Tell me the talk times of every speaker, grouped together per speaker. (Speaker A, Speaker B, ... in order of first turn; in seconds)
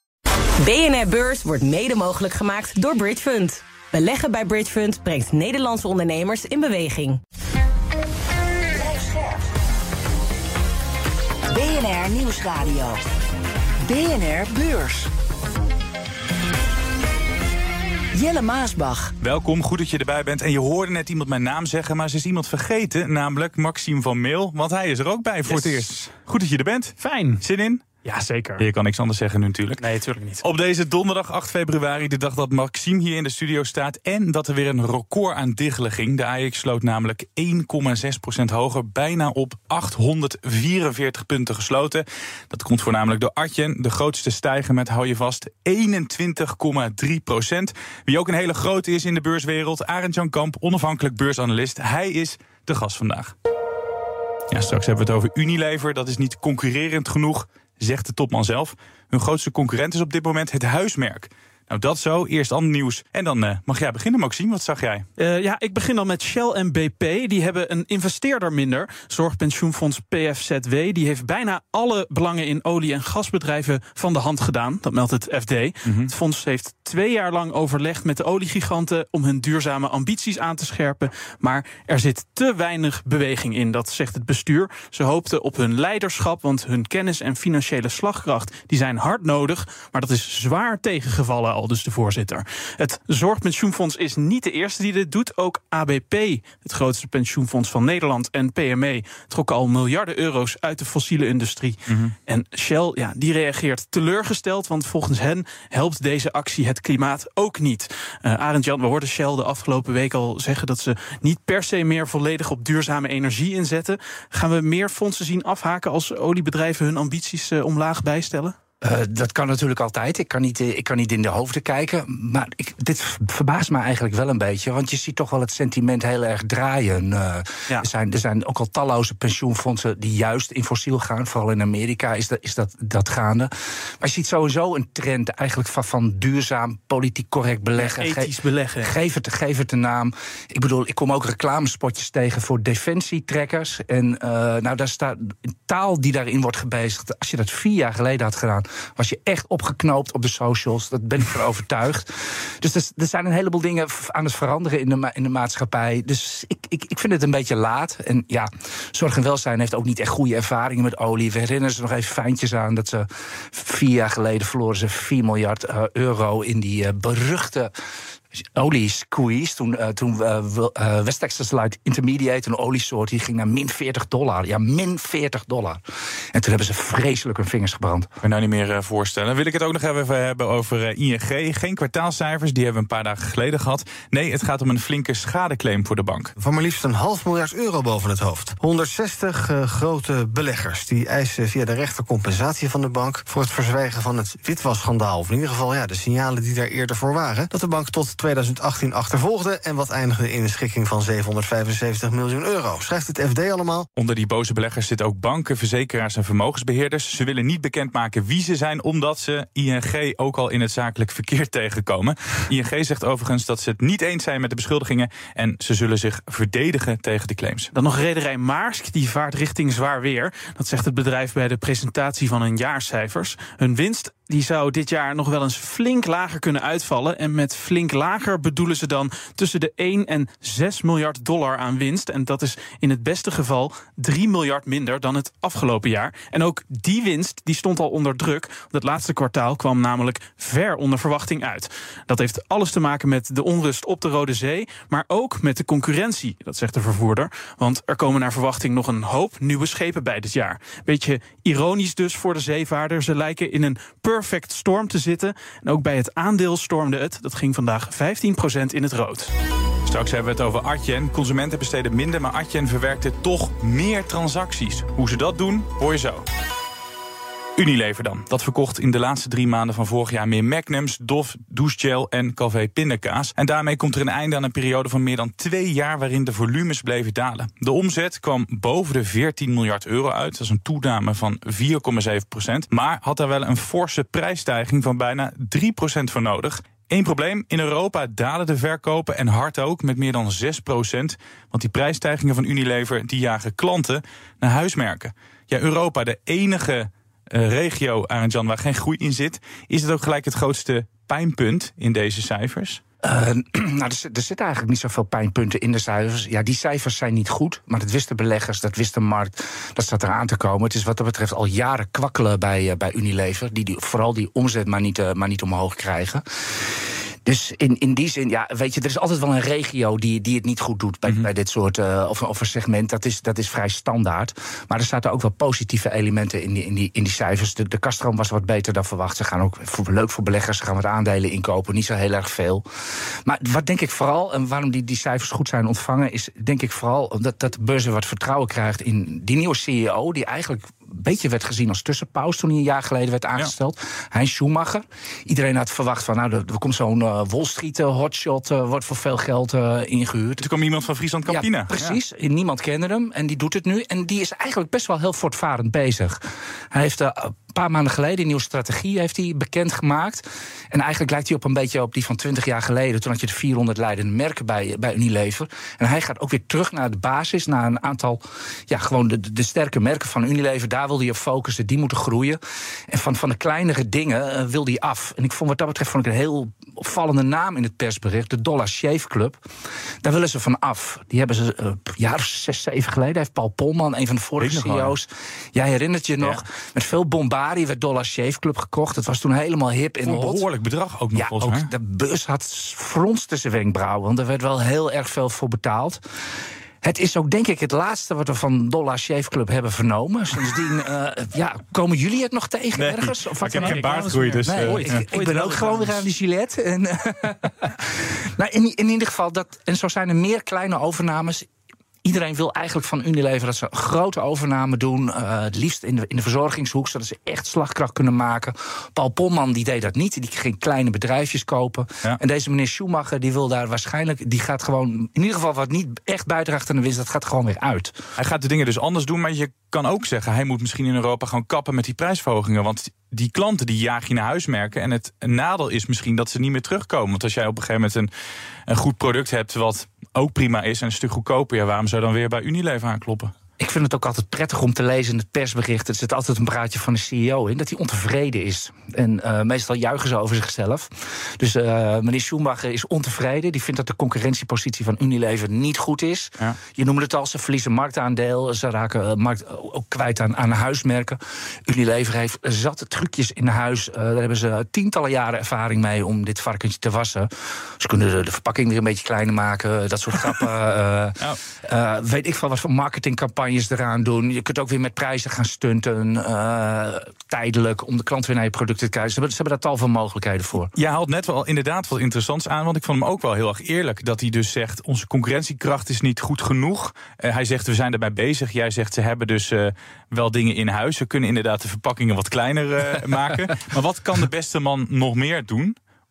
Speaker A: 0.6-7.2
Speaker B: 8.7-9.4, 11.5-13.0, 13.8-15.1, 18.1-19.1
Speaker C: 19.2-27.8, 28.6-29.8, 30.4-53.3, 54.5-65.1, 75.8-76.1, 101.9-102.1, 178.2-186.3, 203.9-217.7, 259.8-266.2, 267.6-302.8, 350.4-352.0, 384.4-384.9, 390.0-391.7, 402.8-405.0, 428.2-438.1, 438.7-443.3, 480.7-495.8
Speaker D: 25.4-26.1, 27.0-27.4, 28.0-28.6, 29.8-30.4, 65.2-118.5, 137.8-138.9, 217.7-259.3, 403.5-406.0
Speaker E: 118.8-133.5, 134.0-138.3, 138.8-167.7, 168.6-175.8, 176.3-178.1, 303.0-316.2, 317.2-332.6, 333.2-350.4, 351.3-356.2, 356.7-379.4, 380.0-390.4, 391.1-396.0, 396.8-411.5, 412.0-427.9, 443.6-480.7
Speaker F: 186.4-203.9